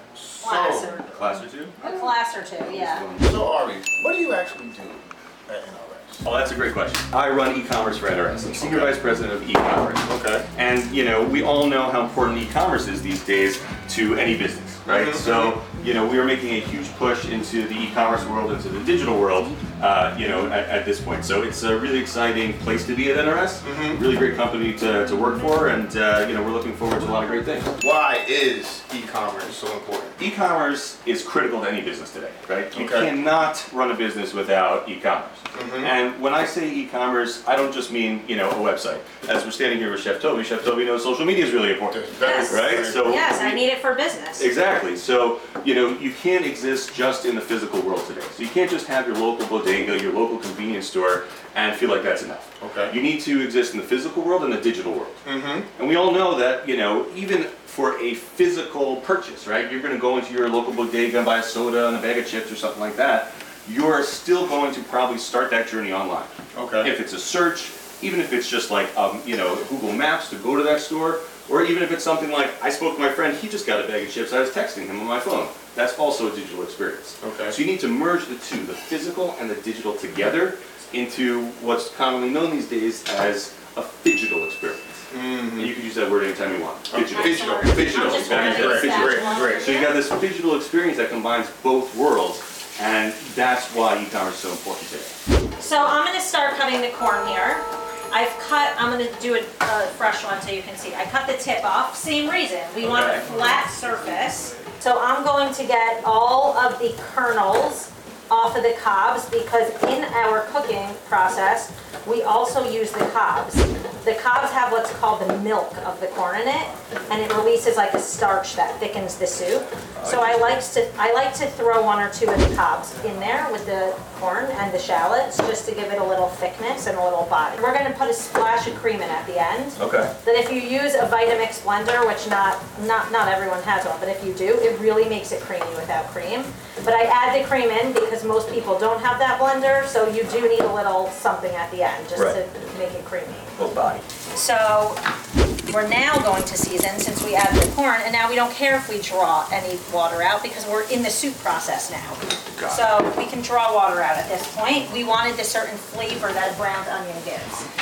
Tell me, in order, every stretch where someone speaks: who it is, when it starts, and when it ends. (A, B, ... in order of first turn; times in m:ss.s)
0:00.2-0:01.0 A
0:00.4-0:03.0 B
0:01.1-0:01.9 C
0:02.6-0:03.4 C
0:03.2-0:06.2 A
0:06.2-0:27.7 C
0:08.5-0:09.0 A
0:10.1-0:10.5 A
0:14.9-0:15.6 A
0:23.6-0:24.0 A
0:27.8-0:30.2 A
0:30.2-0:43.6 C
0:32.7-0:33.1 A
0:35.5-0:36.0 A
0:41.9-0:43.2 A
0:42.2-0:44.5 B
0:44.4-0:55.2 C
0:52.6-0:53.0 A
0:55.2-0:55.7 A
0:55.8-1:25.0 C
1:06.5-1:06.9 A
1:17.2-1:17.6 A
1:25.1-1:25.7 A
1:25.5-1:35.1 C
1:26.9-1:29.7 A
1:27.1-1:30.0 B
1:35.6-2:23.7 B
1:42.8-1:43.3 C
2:00.0-2:00.6 C
2:09.8-2:10.1 C
2:23.6-2:24.0 C
2:24.3-2:25.0 B
2:25.7-2:37.6 B
2:32.6-2:32.9 C